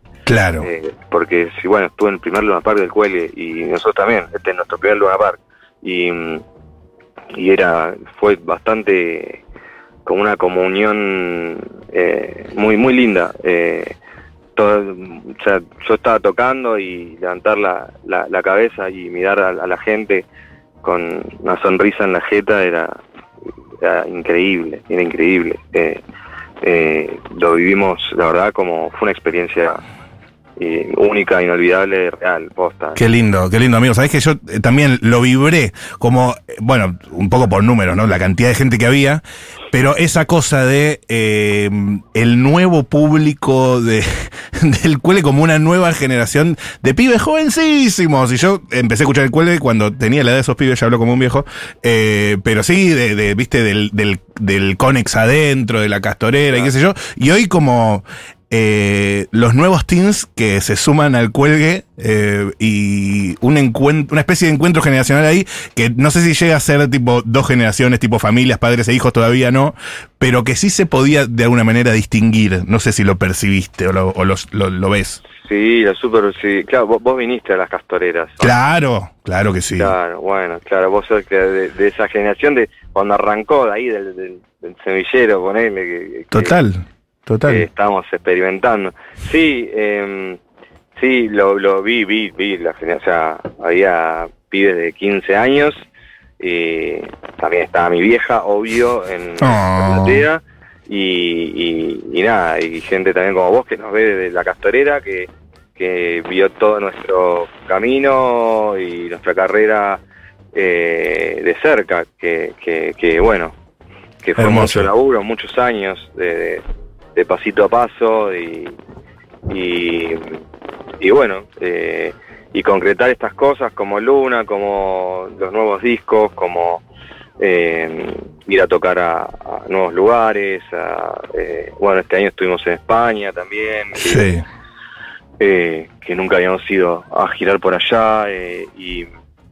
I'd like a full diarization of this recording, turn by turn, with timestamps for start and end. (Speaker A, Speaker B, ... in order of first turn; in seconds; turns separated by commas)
Speaker A: 0.2-0.7, Speaker B: 0.6-6.4, Speaker B: 7.3-9.4, Speaker B: 10.1-13.9, Speaker B: 14.6-20.2, Speaker B: 20.8-23.0, Speaker B: 23.8-26.0, Speaker B: 26.6-29.8, Speaker B: 30.6-33.0, Speaker A: 33.0-75.2, Speaker B: 75.4-78.5, Speaker A: 78.4-79.9, Speaker B: 79.8-86.5, Speaker A: 86.3-87.7, Speaker B: 87.5-90.4, Speaker B: 90.9-95.8, Speaker B: 96.4-110.0, Speaker A: 99.4-100.2, Speaker B: 110.5-113.5, Speaker B: 114.2-116.6, Speaker A: 114.4-114.9, Speaker B: 117.1-118.8, Speaker B: 119.5-120.4, Speaker B: 121.0-126.8, Speaker B: 127.4-134.2, Speaker A: 133.9-134.4, Speaker B: 135.4-139.1